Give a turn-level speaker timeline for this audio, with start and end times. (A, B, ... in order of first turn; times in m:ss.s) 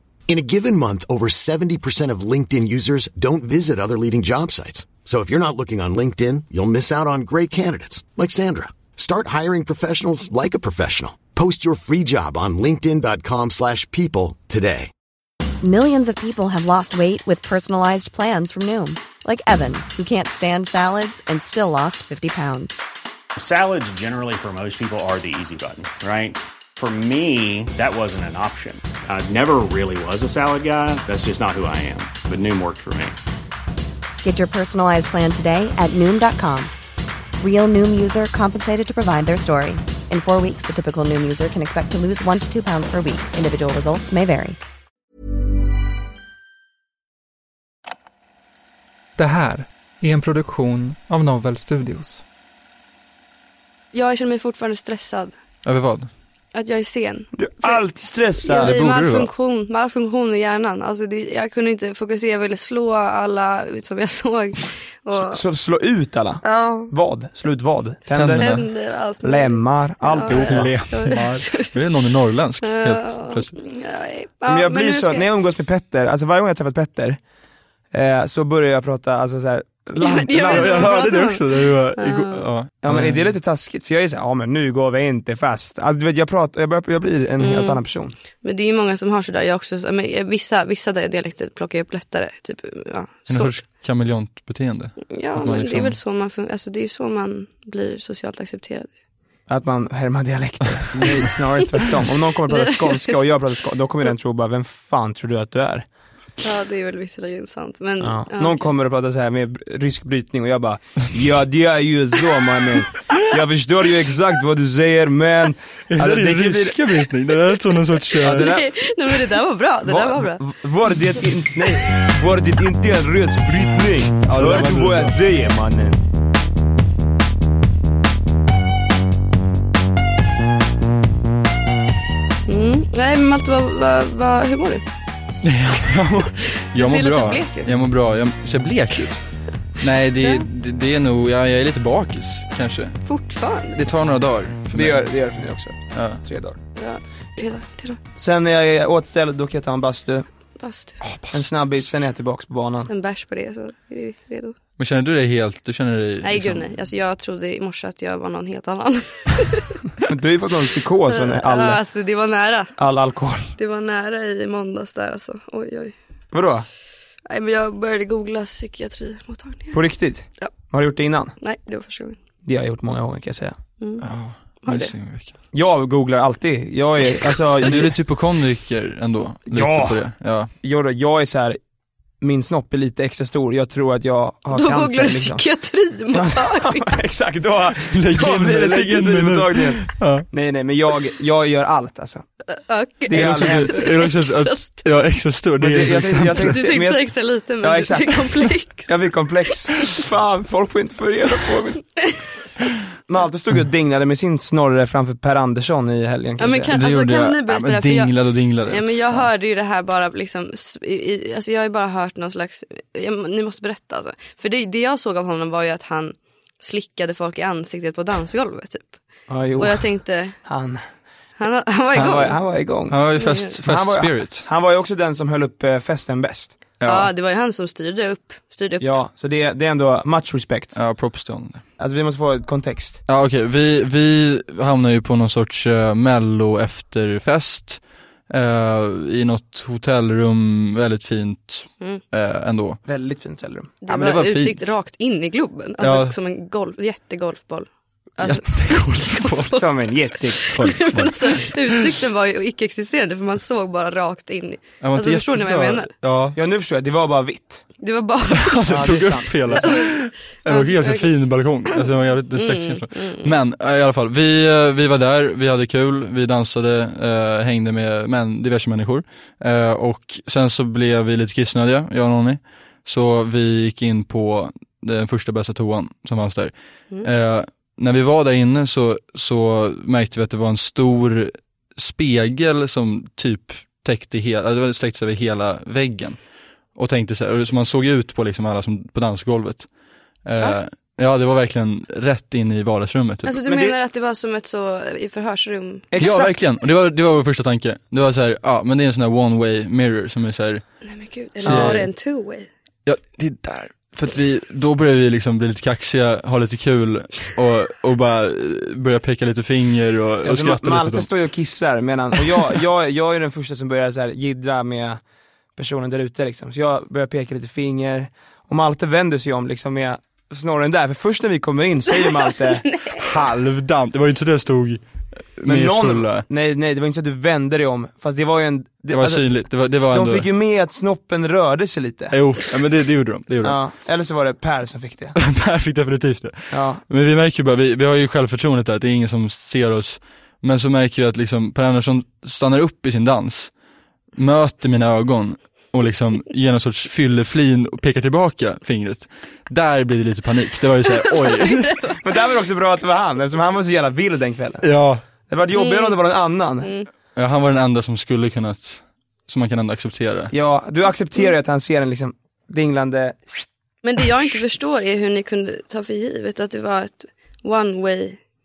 0:00.3-0:14.9 A
0:15.6-0:22.8 B
0:23.4-0:33.2 C
0:34.2-0:36.7 B
0:37.4-0:44.6 B
0:49.2-0:52.2 D
0:53.9-0:55.4 E
0:55.6-0:56.1 F
0:56.5-0:57.8 E
0:57.3-0:58.8 G
0:58.4-1:05.4 E
0:58.5-0:59.3 F
1:05.1-1:08.6 G
1:06.4-1:06.9 E
1:08.1-1:11.8 E
1:08.1-1:08.6 F
1:09.2-1:11.4 G
1:10.3-1:13.5 F
1:12.6-1:15.3 E
1:14.5-1:17.2 G
1:17.9-1:21.1 G
1:20.0-1:22.4 E
1:20.4-1:23.3 F
1:22.8-1:28.1 G
1:27.4-1:27.8 E
1:28.4-1:33.6 E
1:33.3-1:35.9 F
1:35.1-1:38.9 E
1:39.5-1:45.8 G
1:42.5-1:43.2 E
1:46.4-1:48.7 E
1:48.0-1:56.8 G
1:55.9-1:58.5 F
1:58.2-1:58.6 G
1:58.2-2:00.4 E
1:59.8-2:06.0 G
2:04.2-2:05.1 F
2:12.5-2:14.8 E
2:15.4-2:23.0 F
2:16.6-2:17.7 E
2:23.0-2:23.8 E
2:23.8-2:25.1 F
2:24.7-2:26.6 G
2:25.9-2:26.2 F
2:26.8-2:28.0 E
2:28.2-2:30.2 G
2:30.6-2:31.0 E
2:31.0-2:31.6 F
2:31.3-2:32.9 G
2:32.8-2:34.5 E
2:34.8-2:36.8 F
2:36.2-2:39.8 E
2:40.0-2:41.8 G
2:41.1-2:42.8 E
2:42.8-2:43.5 G
2:43.6-2:45.9 E
2:46.3-2:46.6 G
2:47.3-2:49.8 E
2:49.7-2:51.3 G
2:51.4-2:52.2 E
2:52.4-2:53.6 G
2:53.8-2:54.0 E
2:54.0-2:55.3 F
2:54.6-2:54.9 E
2:55.5-2:57.9 G
2:57.2-3:00.5 F
2:59.5-3:00.0 G
3:00.6-3:01.6 G
3:02.2-3:05.4 G
3:04.5-3:07.0 E
3:06.1-3:12.2 G
3:07.8-3:10.2 F
3:12.5-3:14.8 E
3:13.1-3:13.8 G
3:13.1-3:16.6 F
3:15.6-3:22.0 G
3:16.4-3:18.9 E
3:23.1-3:26.7 G
3:26.4-3:39.0 E
3:26.7-3:29.3 F
3:39.3-3:40.8 G
3:39.6-3:40.4 E
3:41.4-3:42.4 E
3:42.0-3:43.0 G
3:42.9-3:44.4 F
3:43.2-3:43.5 E
3:43.6-3:46.6 G
3:46.8-3:47.1 F
3:46.8-3:48.9 E
3:48.8-3:50.8 G
3:50.7-3:51.6 F
3:51.8-3:53.0 G
3:53.1-4:02.8 F
4:02.8-4:03.7 G
4:03.8-4:15.9 E
4:03.9-4:04.7 F
4:05.8-4:06.1 F
4:08.2-4:09.6 F
4:09.5-4:10.9 G
4:10.5-4:11.6 F
4:14.8-4:16.4 F
4:16.3-4:17.7 G
4:17.8-4:19.0 E
4:18.4-4:46.2 F
4:18.7-4:19.7 G
4:19.6-4:21.1 E
4:21.8-4:23.3 E
4:46.7-4:49.7 F
4:50.2-4:53.4 F
4:53.2-4:55.9 E
4:53.4-4:53.7 G
4:55.9-4:56.4 G
4:56.0-5:00.7 F
5:00.8-5:02.5 E
5:01.4-5:01.8 G
5:01.4-5:01.9 F
5:02.8-5:11.1 F
5:10.2-5:15.0 G
5:15.6-5:22.7 G
5:22.6-5:23.0 E
5:22.9-5:26.2 F
5:25.4-5:32.2 G
5:28.9-5:30.3 F
5:32.1-5:33.6 F
5:33.4-5:35.2 G
5:35.2-5:43.5 F
5:36.5-5:36.8 G
5:44.2-5:51.8 F
5:51.6-5:51.9 E
5:52.0-5:54.6 G
5:54.6-5:55.0 F
5:55.2-5:56.7 G
5:55.5-5:56.0 E
5:56.6-5:56.9 E
5:57.2-6:00.3 F
6:00.3-6:03.3 G
6:03.8-6:08.2 E